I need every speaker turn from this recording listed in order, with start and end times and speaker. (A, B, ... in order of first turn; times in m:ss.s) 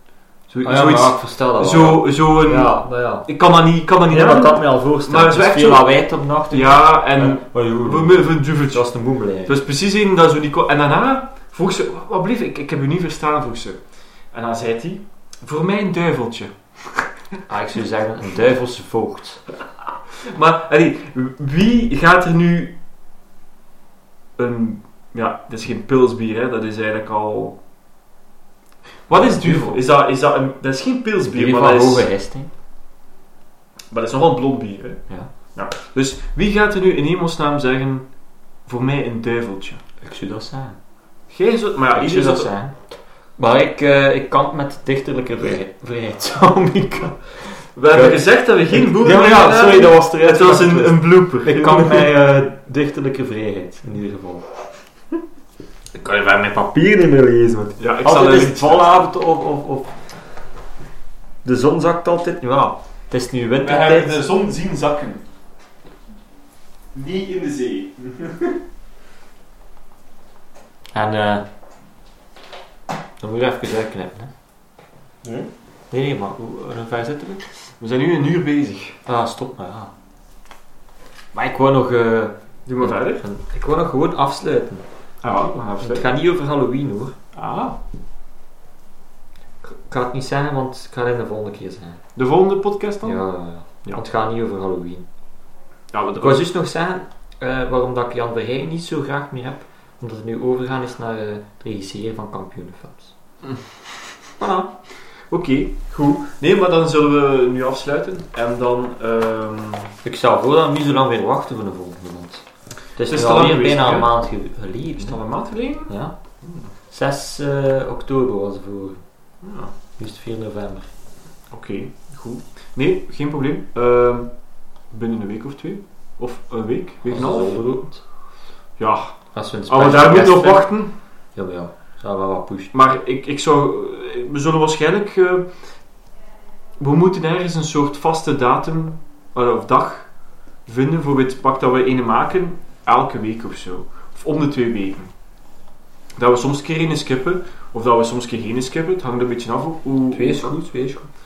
0:00.5-0:03.3 A
0:00.6-0:02.8 B
0:03.3-0:05.9 B
0:04.1-0:09.6 A
0:06.5-0:08.9 B
0:09.5-0:13.8 B
0:14.3-0:17.1 B
0:17.5-0:19.4 A
0:20.2-0:22.8 B
0:24.4-0:27.6 B
0:29.1-0:32.1 B
0:29.1-0:29.8 A
0:31.3-0:32.5 A
0:33.9-0:38.1 B
0:38.7-0:39.8 B
0:40.0-0:40.8 A
0:41.3-0:42.5 B
0:41.9-0:42.8 A
0:43.4-0:54.5 A
0:47.8-0:52.1 B
0:55.9-0:59.9 A
0:57.8-0:59.0 B
1:01.4-1:04.2 A
1:03.6-1:05.2 B
1:06.9-1:08.6 B
1:10.9-1:11.5 A
1:13.2-1:14.3 A
1:15.2-1:15.5 B
1:15.9-1:17.4 A
1:17.5-1:19.0 B
1:19.1-1:19.9 A
1:21.3-1:24.8 A
1:22.7-1:23.2 B
1:25.2-1:26.1 B
1:25.8-1:27.2 A
1:27.4-1:27.8 B
1:29.6-1:32.0 A
1:32.2-1:33.2 B
1:33.0-1:35.1 A
1:35.9-1:36.4 B
1:36.2-1:43.1 A
1:44.4-1:44.7 A
1:45.3-1:49.9 B
1:50.0-1:52.4 A
1:53.0-1:55.2 A
1:53.1-1:54.1 B
1:55.0-1:56.7 B
1:55.9-1:56.1 A
1:56.9-1:59.0 A
1:59.4-1:59.7 B
2:00.0-2:00.9 A
2:01.5-2:04.3 B
2:04.9-2:07.6 B
2:07.0-2:08.0 A
2:08.8-2:10.9 B
2:09.3-2:10.7 A
2:11.4-2:12.7 A
2:12.7-2:15.5 B
2:16.8-2:20.1 B
2:20.7-2:25.1 B
2:26.2-2:30.5 B
2:30.1-2:31.1 A